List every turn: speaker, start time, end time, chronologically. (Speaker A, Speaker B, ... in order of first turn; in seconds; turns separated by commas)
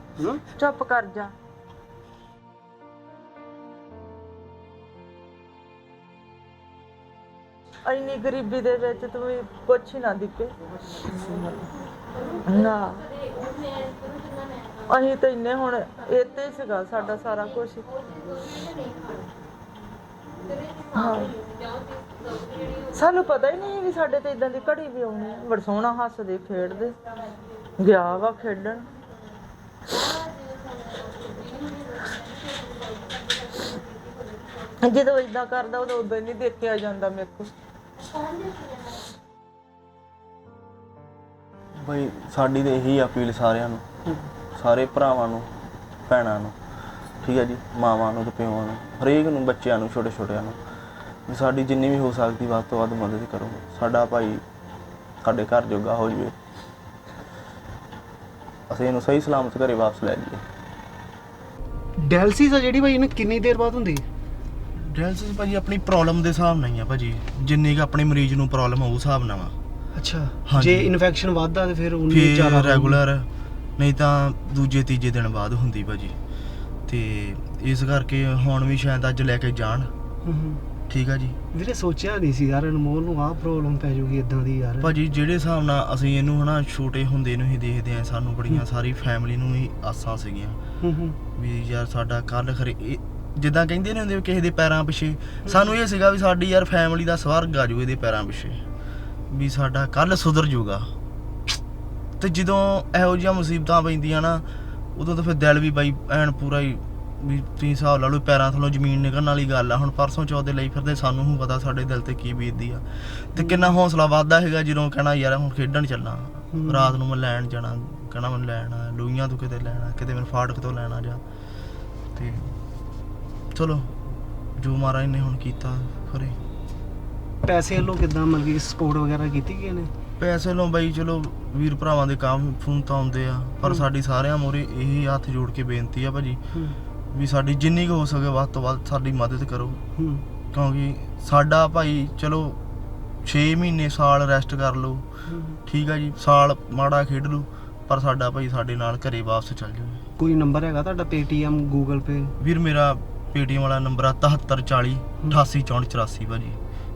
Speaker A: 0.2-0.4, Speaker B: 0.5-1.3, Speaker B: 7.8-10.5, Speaker B: 12.4-13.1, Speaker B: 14.8-17.9, Speaker B: 20.8-21.4, Speaker B: 22.8-26.9, Speaker B: 27.8-28.8, Speaker B: 34.8-37.5, Speaker C: 41.8-43.8, Speaker C: 44.5-46.5, Speaker C: 47.2-50.6, Speaker C: 51.3-54.4, Speaker C: 55.2-56.3, Speaker C: 58.7-60.4, Speaker A: 62.0-64.0, Speaker C: 64.7-69.5, Speaker A: 70.0-73.0, Speaker C: 70.5-70.9, Speaker C: 72.1-73.3, Speaker C: 73.8-76.1, Speaker C: 76.9-79.9, Speaker A: 80.2-80.6, Speaker C: 80.9-81.4, Speaker A: 81.5-84.9, Speaker C: 84.8-90.6, Speaker A: 90.8-91.2, Speaker C: 91.3-98.6, Speaker C: 99.3-100.9, Speaker C: 102.2-121.2, Speaker A: 113.4-113.7, Speaker A: 116.5-116.9, Speaker C: 122.1-122.5, Speaker C: 123.5-123.9, Speaker C: 124.6-126.4, Speaker A: 127.4-129.9, Speaker C: 130.2-136.4, Speaker C: 137.1-139.8, Speaker A: 140.0-140.2, Speaker C: 140.5-142.6, Speaker C: 143.2-145.1, Speaker A: 145.3-145.6, Speaker C: 145.7-150.0, Speaker A: 150.2-152.3, Speaker C: 152.4-156.6